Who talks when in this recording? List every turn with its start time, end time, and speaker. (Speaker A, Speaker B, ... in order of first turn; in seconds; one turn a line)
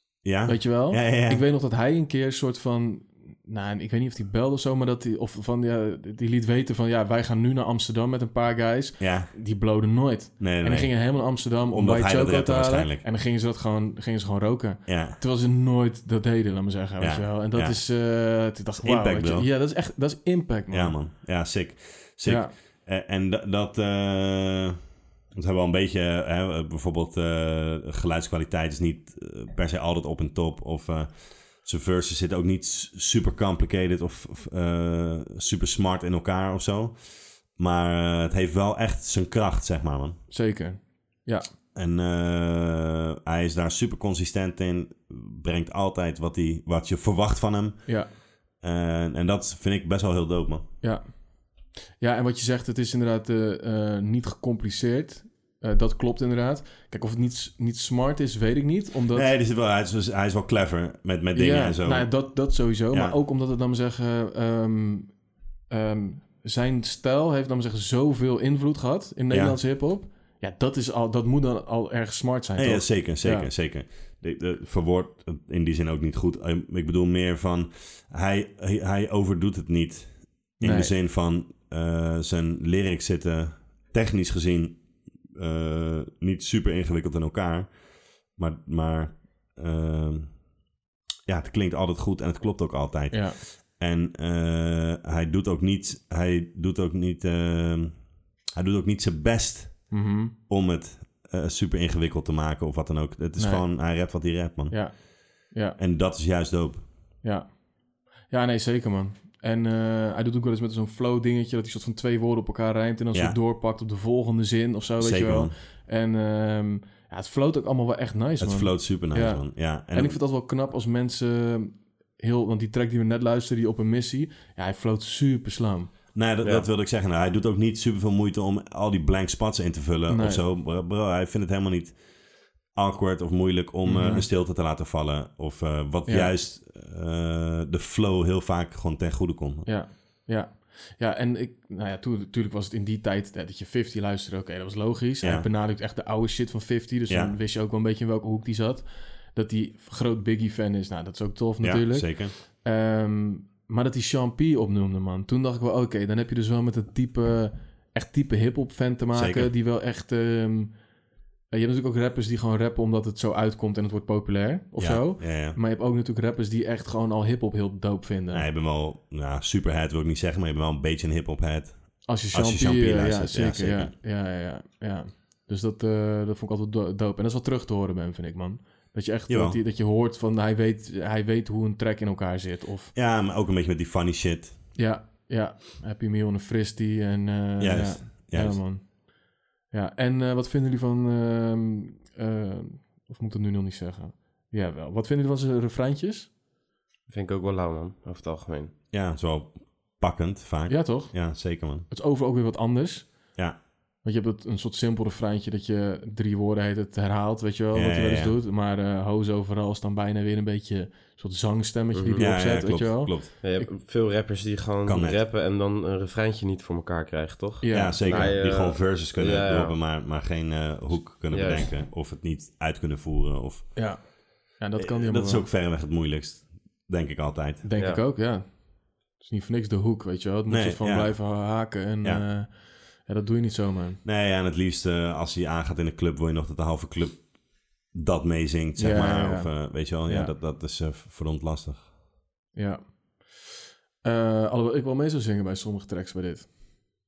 Speaker A: 0.2-1.4
Speaker B: 0.5-21.0
Speaker A: 9.0-9.3
Speaker A: 10.4-13.0
Speaker A: 14.9-15.2
Speaker A: 17.0-17.8
Speaker A: 18.8-19.5
Speaker A: 20.7-24.8
Speaker B: 22.2-22.5
Speaker A: 25.3-40.2
Speaker B: 40.3-41.5
Speaker A: 41.7-48.0
Speaker A: 48.6-50.6
Speaker B: 50.8-59.3
Speaker A: 59.1-62.3
Speaker B: 61.3-65.2
Speaker A: 62.9-63.1
Speaker B: 65.7-73.5
Speaker A: 69.3-69.6
Speaker A: 72.5-90.5
Speaker B: 80.6-80.9
Speaker A: 91.2-105.1
Speaker B: 93.1-93.4
Speaker B: 99.9-100.3
Speaker B: 103.4-105.8
Speaker A: 105.8-106.9
Speaker B: 107.2-107.6
Speaker B: 108.2-125.9
Speaker A: 115.0-115.5
Speaker A: 118.4-120.2
Speaker A: 126.1-132.0
Speaker B: 130.1-130.4
Speaker A: 132.7-139.7
Speaker B: 133.8-134.3
Speaker B: 136.1-136.3
Speaker B: 139.7-160.7
Speaker A: 145.2-145.5
Speaker A: 147.1-147.3
Speaker A: 151.6-152.3
Speaker A: 159.1-159.5
Speaker B: 161.5-168.5
Speaker A: 164.8-165.6
Speaker A: 168.3-173.9
Speaker B: 172.1-182.9
Speaker A: 179.3-179.6
Speaker A: 182.9-184.6
Speaker B: 184.7-189.1
Speaker A: 187.6-188.6
Speaker B: 189.7-196.3
Speaker C: 197.1-198.7
Speaker A: 198.9-201.9
Speaker B: 200.7-203.4
Speaker B: 204.0-213.7
Speaker A: 207.7-208.4
Speaker C: 211.9-212.2
Speaker A: 212.2-213.3
Speaker C: 213.4-219.8
Speaker A: 214.8-215.2
Speaker B: 217.6-218.3
Speaker A: 217.7-223.9
Speaker C: 221.3-221.7
Speaker B: 223.8-225.5
Speaker A: 224.8-227.7
Speaker B: 227.6-228.6
Speaker B: 229.1-234.0
Speaker A: 230.5-231.4
Speaker A: 234.0-241.9
Speaker B: 238.8-240.3
Speaker B: 242.5-243.4
Speaker B: 244.0-246.5